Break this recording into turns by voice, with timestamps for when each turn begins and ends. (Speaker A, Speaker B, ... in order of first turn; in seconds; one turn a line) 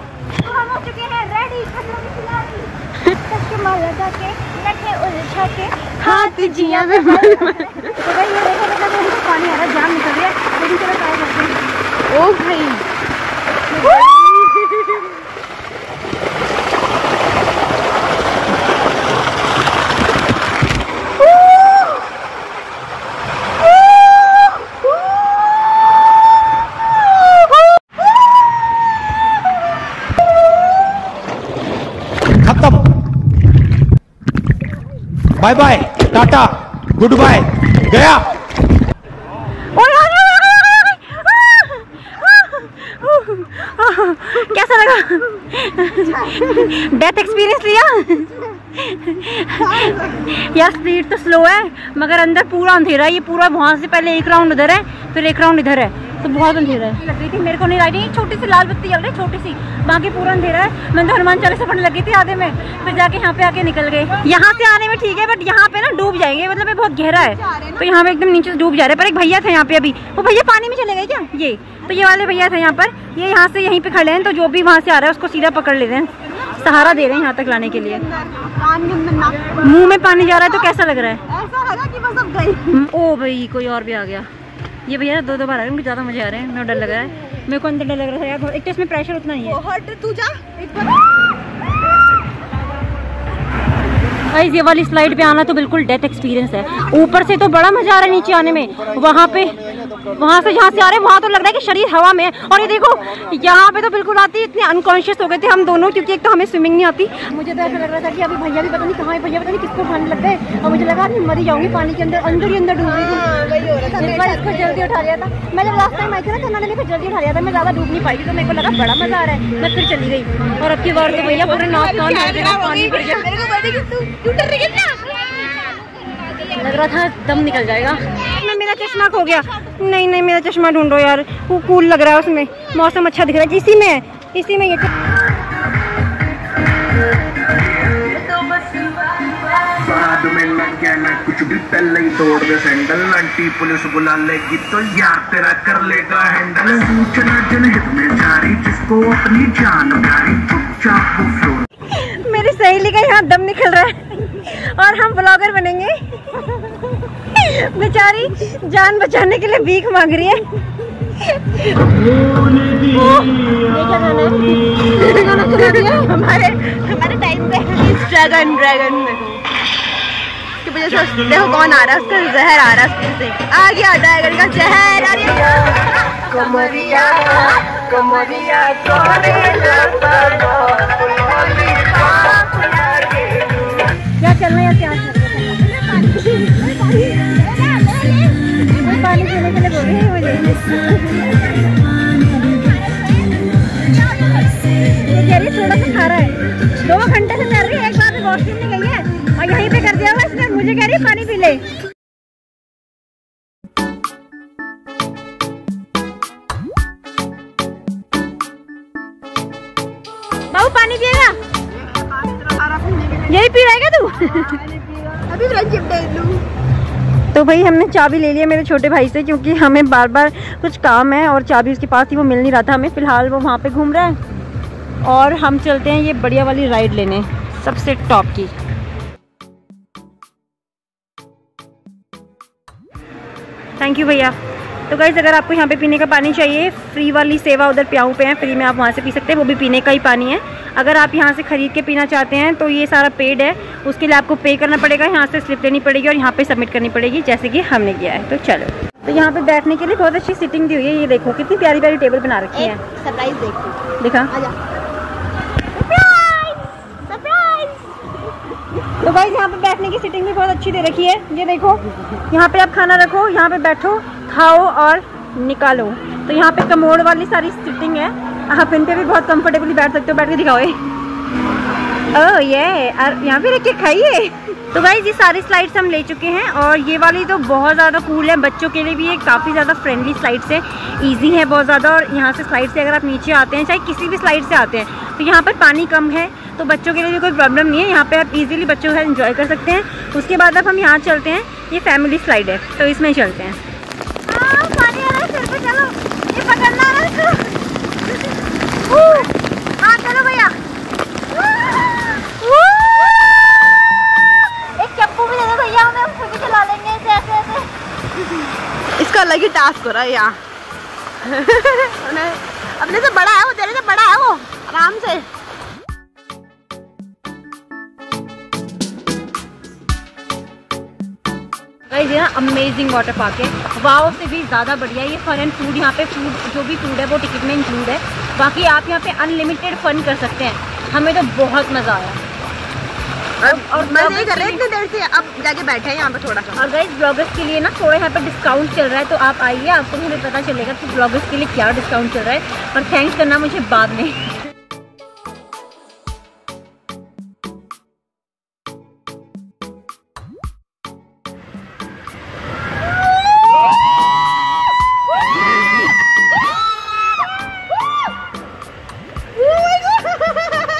Speaker A: 0.4-11.6
Speaker B: 6.0-8.0
Speaker B: 12.1-12.8
Speaker B: 13.8-15.0
Speaker C: 32.4-32.9
Speaker C: 35.4-38.3
Speaker A: 39.8-78.1
Speaker B: 49.6-50.2
Speaker B: 78.0-79.6
Speaker A: 79.6-81.2
Speaker B: 81.3-82.8
Speaker A: 82.7-84.3
Speaker A: 84.9-89.6
Speaker B: 89.5-91.0
Speaker A: 94.3-113.4
Speaker B: 113.1-114.8
Speaker A: 113.9-123.3
Speaker B: 121.2-126.4
Speaker A: 126.5-134.9
Speaker D: 137.6-138.8
Speaker D: 139.5-151.7
Speaker A: 151.9-156.5
Speaker A: 157.3-160.4
Speaker B: 162.9-169.4
Speaker A: 163.8-164.2
Speaker B: 170.6-178.5
Speaker A: 176.3-183.2
Speaker B: 179.1-180.4
Speaker B: 181.4-182.4
Speaker B: 183.1-183.4
Speaker A: 184.2-185.6
Speaker B: 185.6-188.4
Speaker A: 188.7-190.8
Speaker B: 192.4-193.3
Speaker B: 193.9-194.4
Speaker A: 195.1-201.7
Speaker A: 210.5-211.4
Speaker B: 211.9-213.2
Speaker A: 213.2-214.6
Speaker B: 214.3-216.4
Speaker A: 217.3-224.2
Speaker A: 225.0-228.5
Speaker A: 233.8-234.3
Speaker A: 234.9-252.8
Speaker B: 252.5-253.8
Speaker A: 254.0-254.3
Speaker B: 255.9-256.4
Speaker B: 256.9-258.1
Speaker A: 259.0-270.8
Speaker A: 272.1-293.6
Speaker A: 294.3-297.6
Speaker A: 298.9-300.6
Speaker A: 302.2-303.1
Speaker A: 304.8-307.7
Speaker B: 309.0-310.4
Speaker B: 311.2-315.3
Speaker A: 321.9-332.2
Speaker B: 333.4-336.6
Speaker A: 333.4-334.6
Speaker A: 336.6-344.3